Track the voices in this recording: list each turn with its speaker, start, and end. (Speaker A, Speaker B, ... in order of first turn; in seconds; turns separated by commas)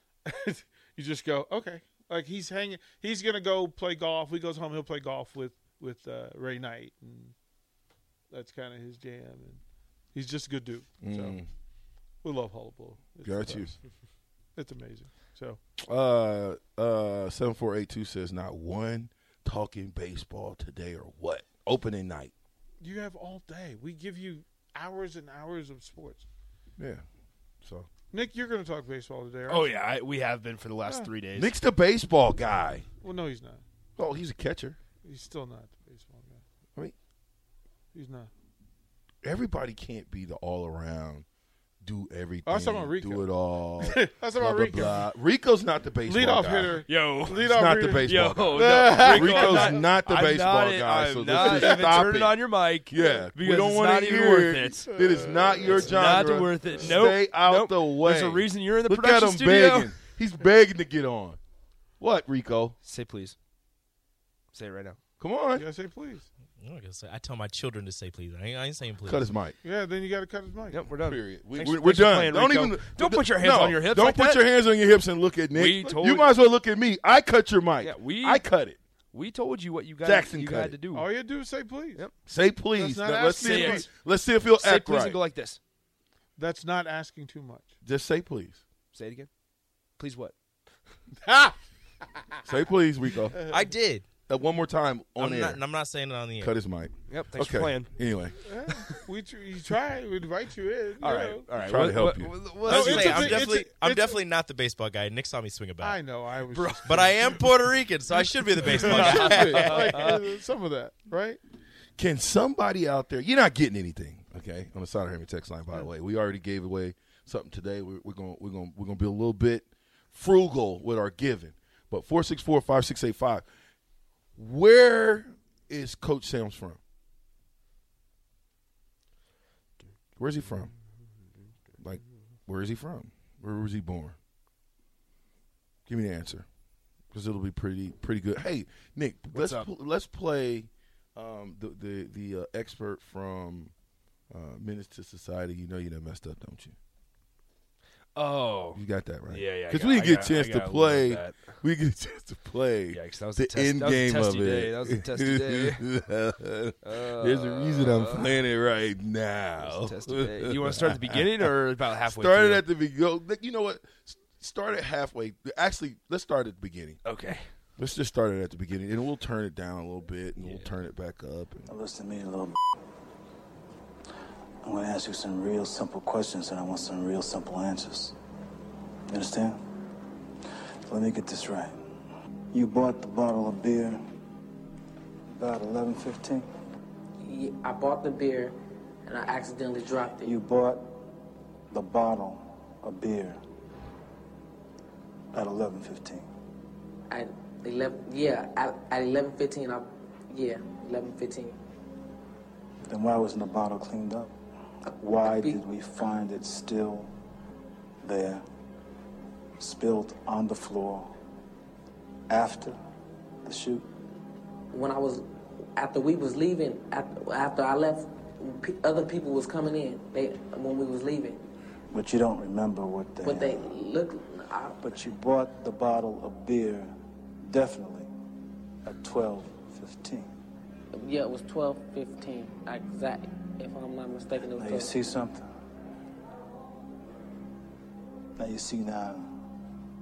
Speaker A: 0.2-7.3, Speaker A: 8.3-9.6, Speaker A: 10.1-11.4, Speaker B: 11.0-11.5, Speaker A: 12.2-13.7, Speaker B: 13.2-13.8, Speaker A: 14.6-15.6, Speaker B: 15.8-22.3, Speaker A: 22.8-26.2, Speaker B: 26.8-27.0, Speaker B: 27.6-27.9, Speaker A: 28.1-29.8, Speaker C: 29.5-31.5, Speaker A: 30.8-31.1, Speaker B: 31.3-32.9, Speaker A: 33.0-33.6, Speaker B: 34.0-34.8, Speaker A: 35.0-36.4, Speaker A: 37.9-38.3, Speaker B: 39.2-41.2, Speaker B: 41.8-61.4, Speaker A: 42.5-43.3, Speaker A: 43.8-45.1, Speaker A: 46.0-49.9, Speaker C: 46.9-47.4, Speaker C: 48.0-60.0, Speaker A: 51.3-51.9, Speaker A: 54.9-56.0, Speaker B: 62.0-62.8, Speaker C: 62.8-63.4, Speaker C: 64.5-65.0, Speaker B: 65.2-65.6, Speaker A: 65.5-66.3, Speaker D: 66.6-69.3, Speaker B: 69.0-69.5, Speaker A: 69.6-70.8, Speaker C: 70.7-74.5, Speaker B: 71.0-78.8, Speaker C: 75.5-76.3, Speaker C: 77.8-78.4, Speaker C: 79.1-81.1, Speaker B: 80.0-80.8, Speaker A: 80.9-82.0, Speaker B: 82.2-85.2, Speaker A: 82.8-83.9, Speaker C: 83.4-83.9, Speaker C: 84.5-85.6, Speaker A: 86.4-87.7, Speaker B: 87.8-88.6, Speaker C: 88.9-89.3, Speaker C: 90.0-90.3, Speaker A: 91.2-91.5, Speaker B: 92.4-93.4, Speaker A: 93.3-93.6, Speaker D: 93.5-94.1, Speaker B: 94.3-95.6, Speaker D: 95.2-96.5, Speaker B: 96.4-98.3, Speaker C: 97.1-97.9, Speaker A: 98.4-101.5, Speaker C: 101.0-103.5, Speaker B: 101.5-103.2, Speaker D: 102.3-106.0, Speaker A: 102.6-104.2, Speaker A: 105.8-107.1, Speaker C: 106.5-107.5, Speaker D: 106.8-110.2, Speaker C: 108.1-110.2, Speaker A: 108.6-111.4, Speaker B: 112.0-123.5, Speaker B: 124.3-126.8, Speaker B: 130.2-130.7, Speaker B: 131.8-134.2, Speaker B: 135.9-136.4, Speaker B: 137.1-143.7, Speaker C: 139.3-139.7, Speaker B: 144.3-146.7, Speaker C: 148.2-151.6, Speaker B: 148.7-167.0, Speaker C: 152.9-155.8, Speaker C: 156.8-158.3, Speaker C: 159.6-162.6, Speaker C: 167.0-167.5, Speaker B: 167.8-171.7, Speaker C: 170.4-170.7, Speaker E: 171.7-172.6, Speaker E: 174.6-178.1, Speaker E: 179.1-179.6, Speaker E: 180.9-181.8, Speaker E: 182.5-184.0, Speaker E: 185.3-186.5, Speaker F: 187.2-190.3, Speaker E: 190.2-191.0, Speaker E: 191.7-193.4, Speaker E: 195.3-196.3, Speaker F: 197.1-201.6, Speaker E: 202.9-204.3, Speaker E: 205.0-207.1, Speaker F: 205.1-205.6, Speaker E: 208.0-208.4, Speaker E: 209.6-211.1, Speaker E: 212.3-212.8, Speaker E: 213.4-213.9, Speaker F: 214.7-221.4, Speaker E: 221.9-223.7, Speaker F: 223.2-225.1, Speaker E: 224.8-226.9, Speaker E: 227.4-228.1, Speaker E: 228.8-230.3, Speaker F: 230.9-234.9, Speaker E: 234.5-235.5, Speaker E: 238.4-239.3